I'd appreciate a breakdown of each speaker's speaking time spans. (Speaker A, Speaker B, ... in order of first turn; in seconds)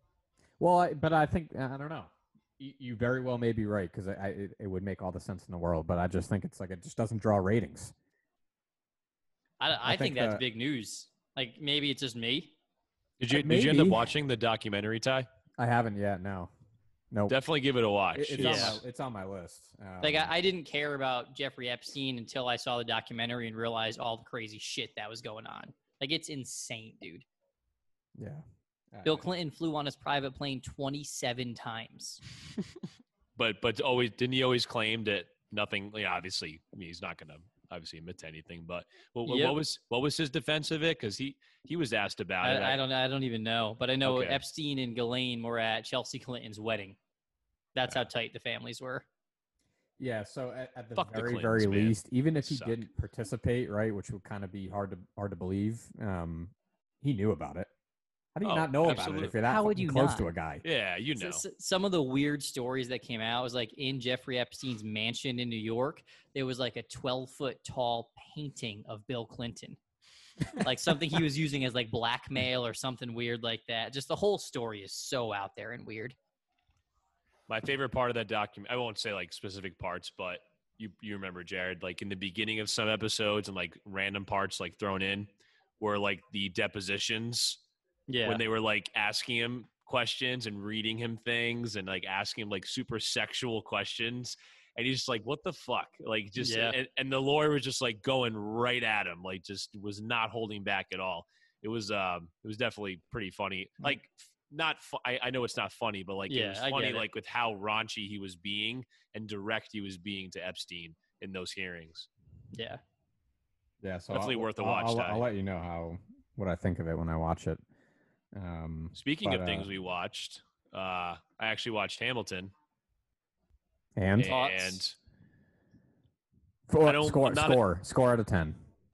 Speaker A: 0.6-7.9, 9.8-10.4, 13.3-14.1, 15.6-16.5, 18.1-20.3, 28.2-29.3, 50.0-57.7, 58.4-60.6, 113.8-117.6, 118.3-119.7, 124.0-124.3, 126.7-128.6
Speaker B: 9.6-12.5, 18.4-18.8, 20.0-27.3, 29.1-32.2, 39.3-39.6, 42.4-47.0, 47.8-49.0, 59.3-60.3, 61.2-69.8, 70.6-76.2, 88.1-88.4, 96.4-96.8, 106.3-107.1, 112.5-112.8, 124.2-124.8
Speaker C: 13.2-15.3, 17.3-18.8, 33.4-42.8, 44.0-44.4, 51.0-52.8, 58.4-59.4, 60.6-61.4, 77.5-87.6, 88.2-112.1, 114.1-115.2, 119.0-122.5, 124.2-125.0, 126.8-127.6